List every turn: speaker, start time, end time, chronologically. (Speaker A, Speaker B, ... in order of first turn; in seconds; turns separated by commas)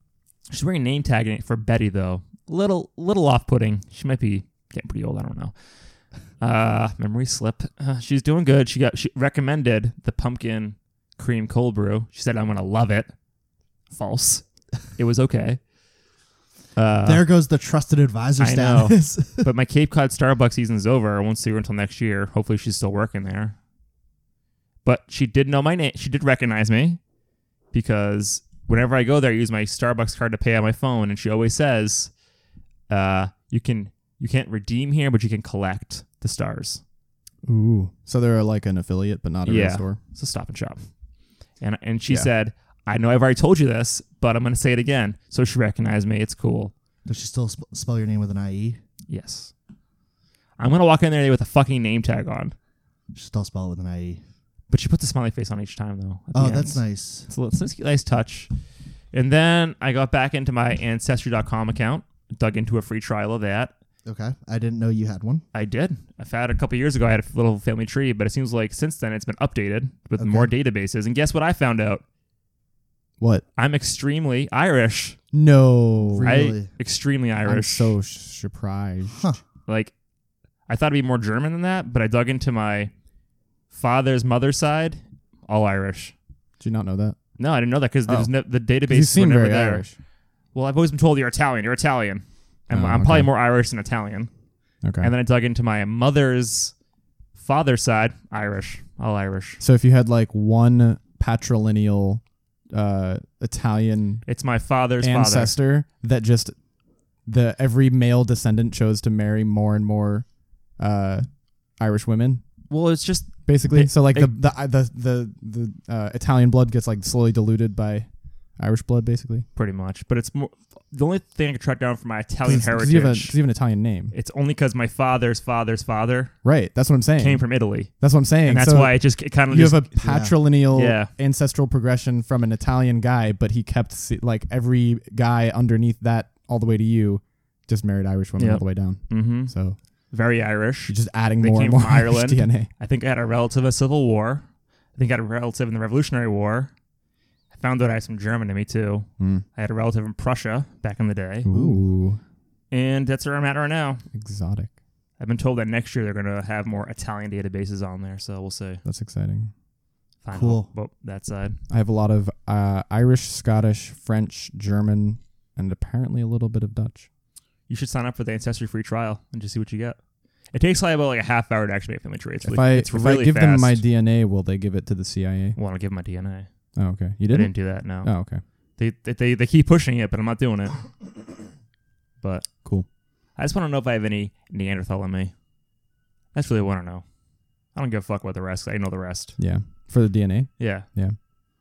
Speaker A: 0.5-5.6, Speaker A: 6.4-13.1, Speaker A: 13.9-15.6, Speaker A: 16.8-17.3, Speaker B: 17.0-19.5, Speaker A: 18.4-23.6, Speaker A: 24.8-27.0, Speaker A: 27.7-32.1, Speaker A: 32.9-36.8, Speaker C: 37.4-40.0, Speaker A: 39.5-40.8, Speaker A: 41.6-46.7, Speaker B: 47.1-48.8, Speaker A: 49.1-49.5, Speaker A: 50.6-52.5, Speaker B: 53.1-54.2, Speaker A: 54.7-58.5, Speaker B: 56.3-57.3, Speaker A: 59.1-63.7, Speaker B: 64.0-65.4, Speaker A: 65.5-72.0, Speaker B: 70.2-70.5, Speaker C: 73.2-73.5, Speaker A: 73.6-75.2, Speaker C: 75.3-76.3, Speaker B: 76.1-76.7, Speaker A: 76.2-78.0, Speaker C: 77.4-79.3, Speaker B: 79.1-79.4, Speaker A: 79.7-79.9, Speaker A: 80.7-82.9, Speaker A: 83.7-86.1, Speaker C: 86.6-87.2, Speaker A: 87.4-89.9, Speaker C: 88.1-90.0, Speaker A: 90.5-94.3, Speaker C: 92.7-93.3, Speaker C: 94.8-95.1, Speaker A: 95.0-96.7, Speaker A: 97.3-99.6, Speaker C: 99.6-104.3, Speaker A: 104.3-105.6, Speaker C: 105.0-106.6, Speaker C: 107.2-112.4, Speaker A: 112.7-114.4, Speaker C: 113.5-119.5, Speaker A: 119.5-123.4, Speaker C: 122.5-124.1, Speaker A: 124.1-126.4, Speaker C: 126.4-139.8, Speaker A: 127.2-129.9, Speaker B: 130.0-130.3, Speaker A: 130.7-131.1, Speaker A: 138.4-139.5, Speaker A: 140.1-146.7, Speaker C: 140.9-142.7, Speaker A: 147.5-151.5, Speaker C: 149.2-149.4, Speaker C: 151.4-152.2, Speaker B: 151.5-151.9, Speaker A: 152.7-154.0, Speaker C: 154.1-154.7, Speaker A: 155.2-158.8, Speaker C: 158.8-159.5, Speaker A: 160.2-161.6, Speaker B: 160.3-160.7, Speaker C: 161.7-167.1, Speaker A: 167.7-170.0, Speaker A: 170.5-173.8, Speaker C: 172.4-175.6, Speaker A: 175.6-176.5, Speaker C: 176.8-178.4, Speaker A: 177.3-178.2, Speaker A: 178.8-180.8, Speaker A: 182.2-182.5, Speaker A: 183.3-185.3, Speaker A: 186.3-187.1, Speaker A: 187.7-189.4, Speaker C: 189.4-191.2, Speaker A: 190.6-190.9